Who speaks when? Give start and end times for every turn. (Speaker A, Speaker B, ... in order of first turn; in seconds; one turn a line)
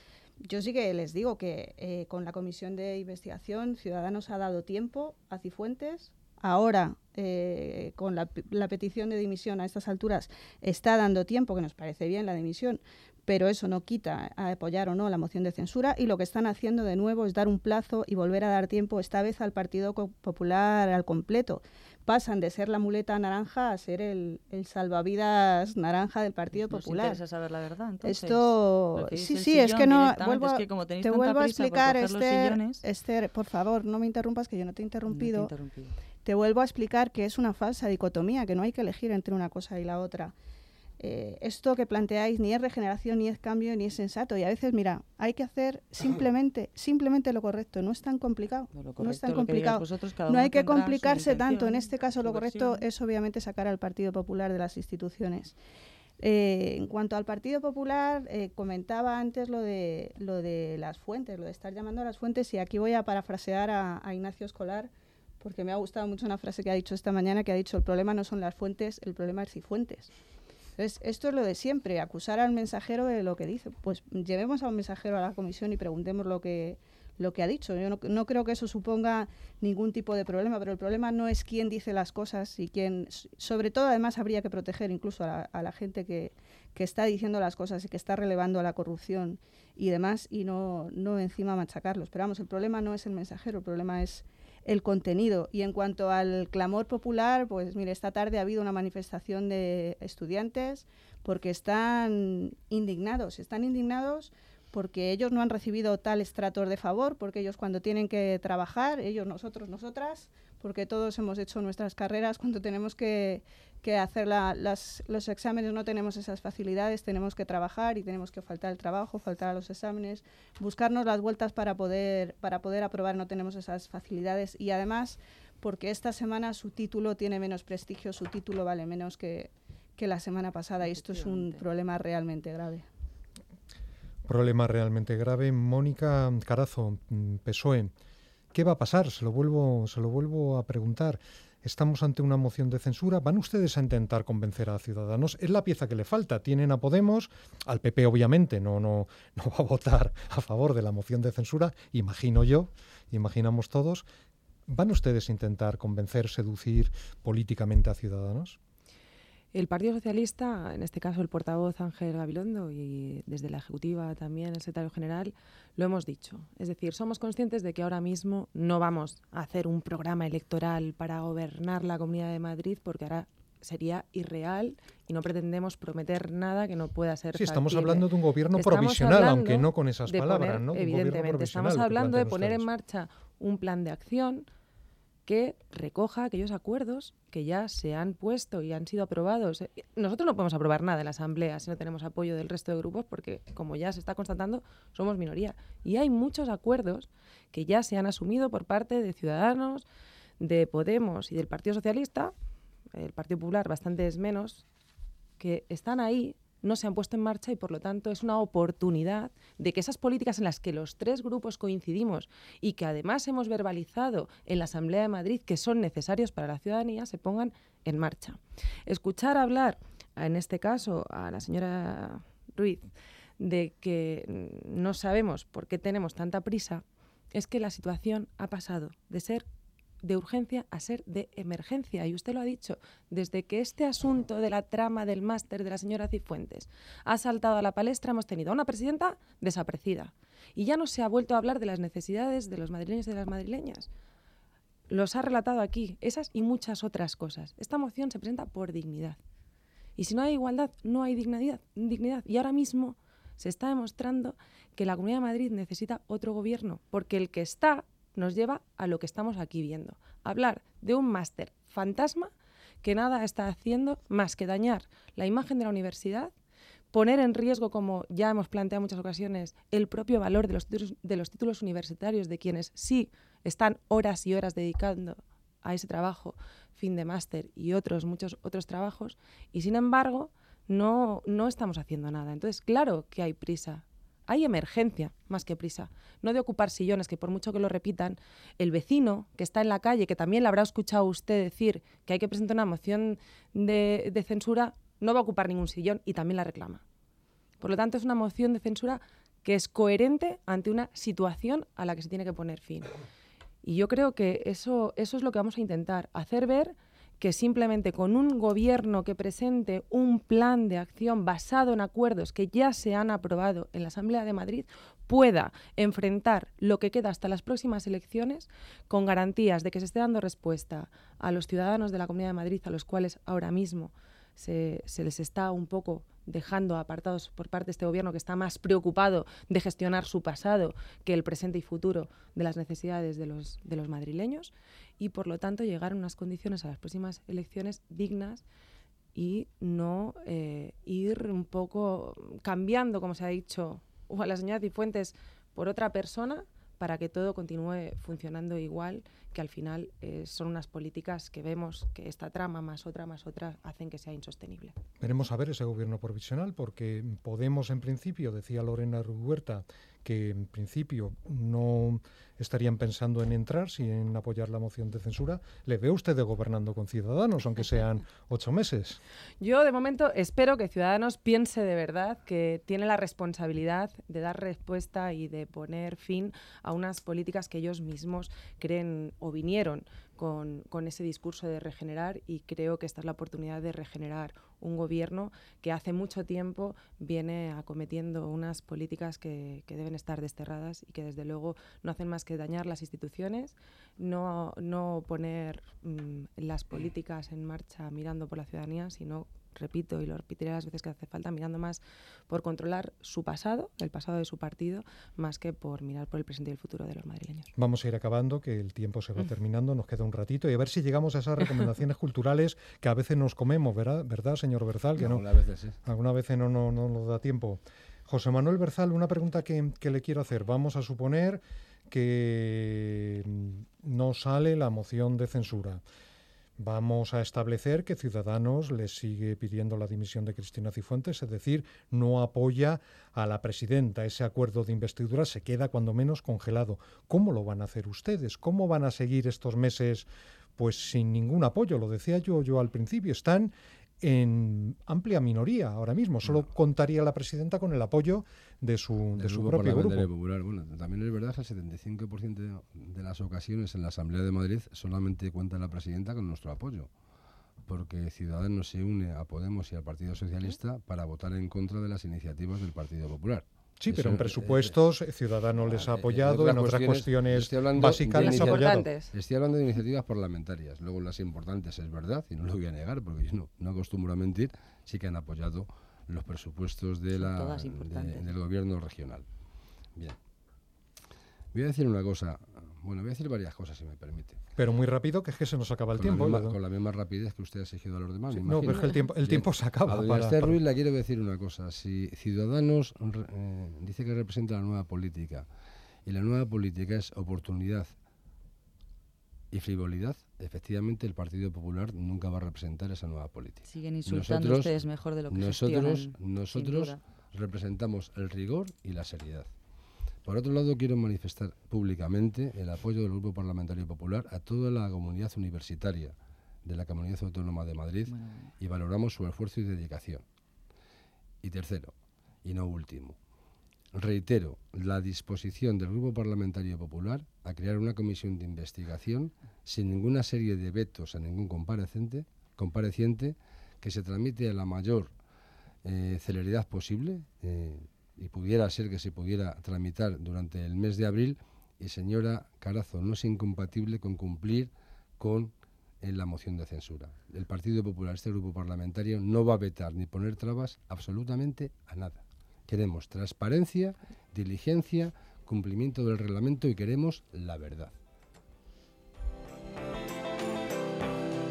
Speaker A: 0.5-27.2
Speaker B: 26.5-32.8
Speaker A: 28.0-35.5
Speaker B: 35.1-35.9
Speaker A: 36.2-40.3
Speaker A: 41.0-55.5
Speaker B: 48.7-52.8
Speaker A: 56.2-70.1
Speaker A: 70.8-132.8
Speaker C: 130.8-131.6
Speaker D: 134.3-137.9
Speaker D: 138.5-154.1
Speaker D: 154.7-158.6
Speaker C: 159.5-184.5
Speaker D: 177.3-182.7
Speaker C: 185.3-199.9
Speaker C: 200.4-202.3
Speaker C: 202.9-204.7
Speaker C: 205.4-229.4
Speaker C: 230.0-243.9
Speaker C: 244.9-249.2
Speaker C: 250.0-262.3
Speaker C: 262.8-266.3
Speaker C: 266.9-296.8
Speaker C: 297.6-302.9
Speaker C: 303.6-338.4
Speaker C: 339.1-354.7
Speaker D: 355.0-369.0
Speaker C: 369.4-407.5
Speaker D: 407.6-415.3
Speaker E: 415.0-415.8
Speaker D: 415.8-425.8
Speaker D: 426.6-450.1
Speaker E: 449.2-456.9
Speaker E: 457.7-464.8
Speaker D: 463.8-468.9
Speaker E: 465.6-479.3
Speaker C: 468.0-469.1
Speaker B: 477.2-478.3
Speaker E: 481.5-484.4
Speaker D: 484.6-486.6
Speaker E: 485.9-495.5
Speaker D: 488.3-490.6
Speaker E: 496.1-497.9
Speaker E: 499.5-509.5
Speaker B: 503.7-507.0
Speaker E: 510.2-520.2
Speaker B: 518.0-518.5
Speaker E: 521.4-523.2
Speaker E: 523.9-535.1
Speaker E: 535.8-557.9